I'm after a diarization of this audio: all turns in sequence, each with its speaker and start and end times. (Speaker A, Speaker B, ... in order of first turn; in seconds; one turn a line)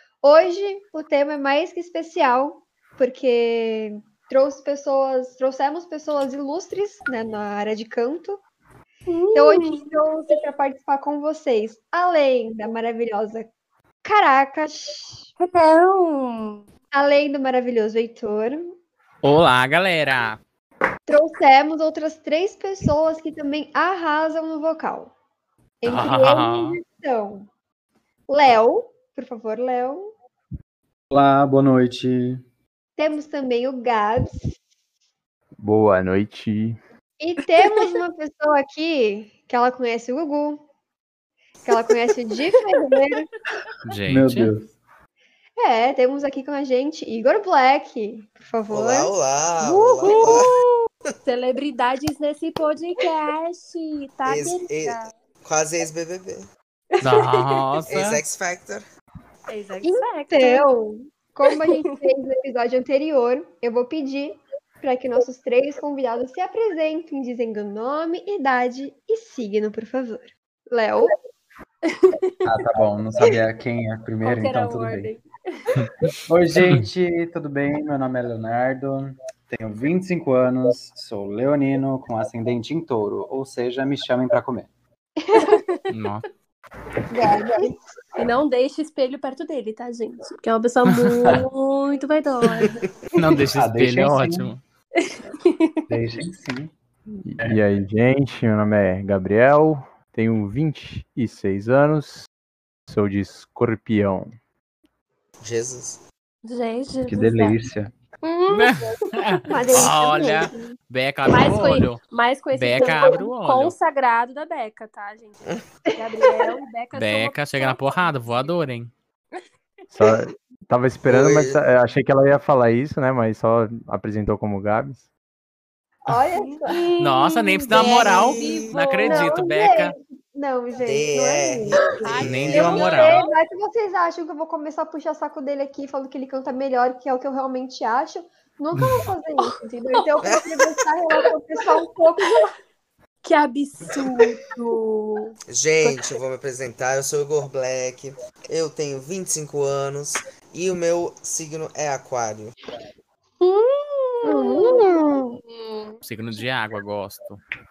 Speaker A: 0.2-8.4
Speaker B: 9.1-9.9
Speaker A: 9.3-13.5
Speaker A: 14.0-15.3
Speaker B: 15.4-16.6
Speaker A: 16.9-18.7
Speaker C: 19.2-20.4
Speaker A: 21.1-25.1
Speaker A: 25.8-27.5
Speaker C: 25.9-26.8
Speaker A: 28.3-30.1
Speaker D: 31.1-32.4
Speaker A: 33.0-34.5
Speaker E: 35.6-36.8
Speaker A: 37.2-40.6
Speaker B: 37.6-37.9
Speaker A: 41.6-43.3
Speaker C: 43.8-44.5
Speaker D: 44.1-44.7
Speaker A: 45.6-50.4
Speaker F: 48.7-50.5
Speaker B: 50.0-55.1
Speaker F: 54.2-56.5
Speaker B: 56.9-57.6
Speaker C: 57.0-58.2
Speaker F: 57.9-58.8
Speaker B: 59.5-60.7
Speaker A: 59.8-71.2
Speaker B: 71.9-72.4
Speaker D: 72.5-75.1
Speaker B: 74.2-75.7
Speaker D: 76.3-84.7
Speaker A: 85.2-85.6
Speaker B: 85.3-85.9
Speaker C: 85.9-86.2
Speaker A: 87.1-87.8
Speaker B: 88.2-92.8
Speaker C: 90.9-91.4
Speaker C: 93.1-94.6
Speaker D: 93.5-94.5
Speaker B: 95.0-96.0
Speaker D: 95.9-96.7
Speaker E: 97.2-102.3
Speaker E: 102.9-104.3
Speaker F: 105.4-106.0
Speaker B: 106.4-107.5
Speaker D: 107.1-107.9
Speaker B: 108.2-109.5
Speaker C: 108.5-112.0
Speaker A: 109.5-110.8
Speaker B: 111.3-115.4
Speaker C: 112.5-113.8
Speaker A: 112.8-113.2
Speaker B: 115.9-118.4
Speaker A: 116.2-116.5
Speaker C: 116.9-118.9
Speaker E: 119.9-125.0
Speaker F: 121.1-121.6
Speaker A: 126.0-126.9
Speaker B: 126.3-129.3
Speaker C: 127.0-129.9
Speaker A: 127.7-128.4
Speaker F: 127.7-128.7
Speaker A: 129.1-142.5
Speaker F: 130.8-132.9
Speaker B: 131.9-133.3
Speaker C: 132.2-133.2
Speaker C: 138.8-139.1
Speaker B: 139.4-140.1
Speaker F: 140.2-140.5
Speaker B: 143.2-146.0
Speaker F: 145.5-152.5
Speaker B: 153.4-156.0
Speaker A: 154.2-155.4
Speaker C: 156.0-157.4